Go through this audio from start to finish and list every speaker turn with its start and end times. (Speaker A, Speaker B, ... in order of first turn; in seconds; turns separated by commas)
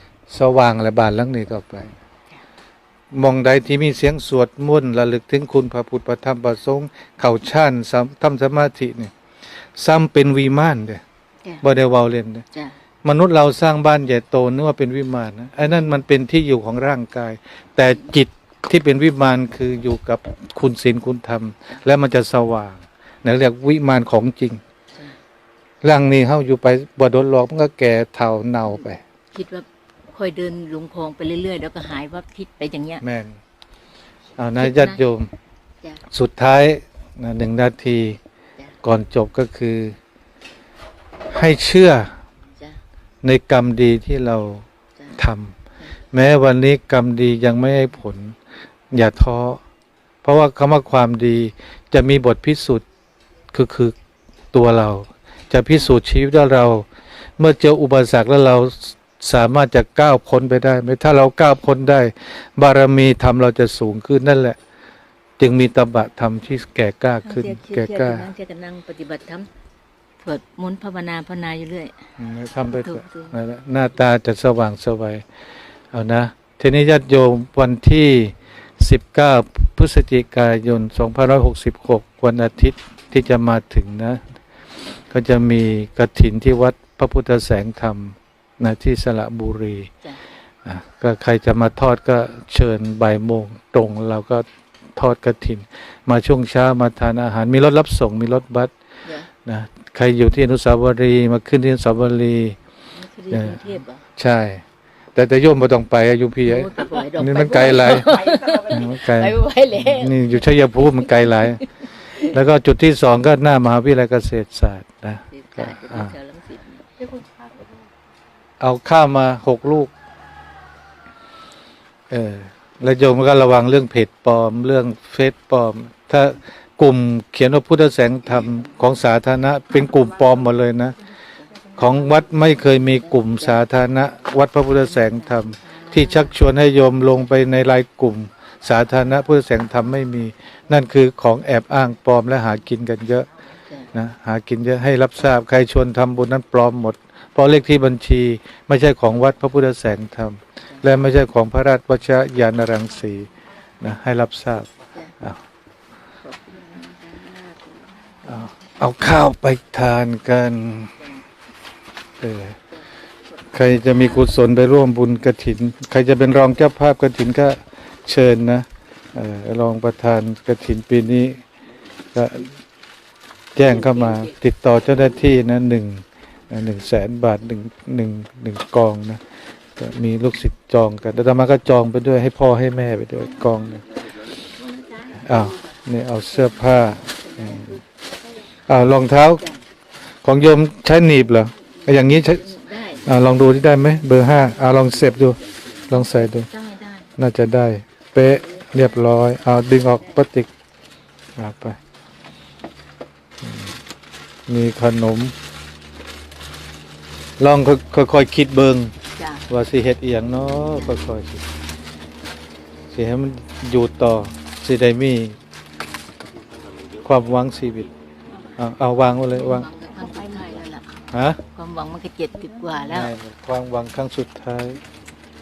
Speaker A: 0.3-1.9, Speaker A: 3.1-9.1, Speaker A: 9.8-11.0, Speaker A: 11.6-12.4, Speaker A: 13.0-24.6, Speaker A: 25.8-29.0, Speaker B: 29.3-33.0, Speaker A: 33.0-33.4, Speaker A: 34.4-35.3, Speaker B: 34.6-35.0, Speaker A: 36.1-38.2, Speaker A: 38.8-40.0, Speaker A: 41.3-42.1, Speaker A: 43.2-45.6, Speaker B: 45.0-45.2, Speaker A: 46.1-48.4, Speaker A: 48.9-49.6, Speaker A: 50.2-52.8, Speaker A: 53.5-53.9, Speaker A: 54.5-56.9, Speaker A: 57.4-64.6, Speaker A: 65.4-68.3, Speaker B: 67.2-69.5, Speaker B: 70.2-72.0, Speaker A: 72.2-75.2, Speaker B: 72.7-73.4, Speaker A: 75.9-84.2, Speaker A: 85.1-89.9, Speaker A: 90.6-94.4, Speaker A: 95.0-98.7, Speaker A: 99.4-102.6, Speaker B: 102.9-104.0, Speaker A: 103.3-104.6, Speaker A: 105.1-111.6, Speaker B: 106.4-112.4, Speaker A: 112.2-116.1, Speaker B: 115.3-117.2, Speaker A: 118.6-119.9, Speaker A: 122.1-130.9, Speaker A: 131.7-143.3, Speaker B: 132.9-133.7, Speaker B: 134.8-136.4, Speaker B: 143.7-143.9, Speaker A: 143.9-153.3, Speaker B: 150.7-151.0, Speaker A: 153.8-155.4, Speaker B: 156.2-158.5, Speaker A: 158.2-160.9, Speaker B: 160.9-161.2, Speaker A: 162.2-162.6, Speaker A: 163.5-171.4, Speaker B: 163.8-164.4, Speaker A: 172.1-172.6, Speaker A: 173.5-179.2, Speaker B: 173.7-174.3, Speaker A: 179.8-183.9, Speaker B: 184.8-185.2, Speaker A: 185.2-187.8, Speaker B: 187.3-187.8, Speaker A: 188.7-189.4, Speaker A: 190.2-195.4, Speaker B: 191.9-193.0, Speaker A: 195.9-196.5, Speaker B: 195.9-197.1, Speaker A: 197.2-200.5, Speaker A: 201.4-201.8, Speaker A: 203.4-203.7, Speaker A: 204.5-205.3, Speaker A: 207.4-208.9, Speaker B: 209.1-209.5, Speaker A: 209.5-211.4, Speaker A: 212.9-215.4, Speaker A: 217.0-217.9, Speaker A: 218.6-219.7, Speaker B: 219.3-223.1, Speaker A: 221.1-221.4, Speaker A: 222.9-224.8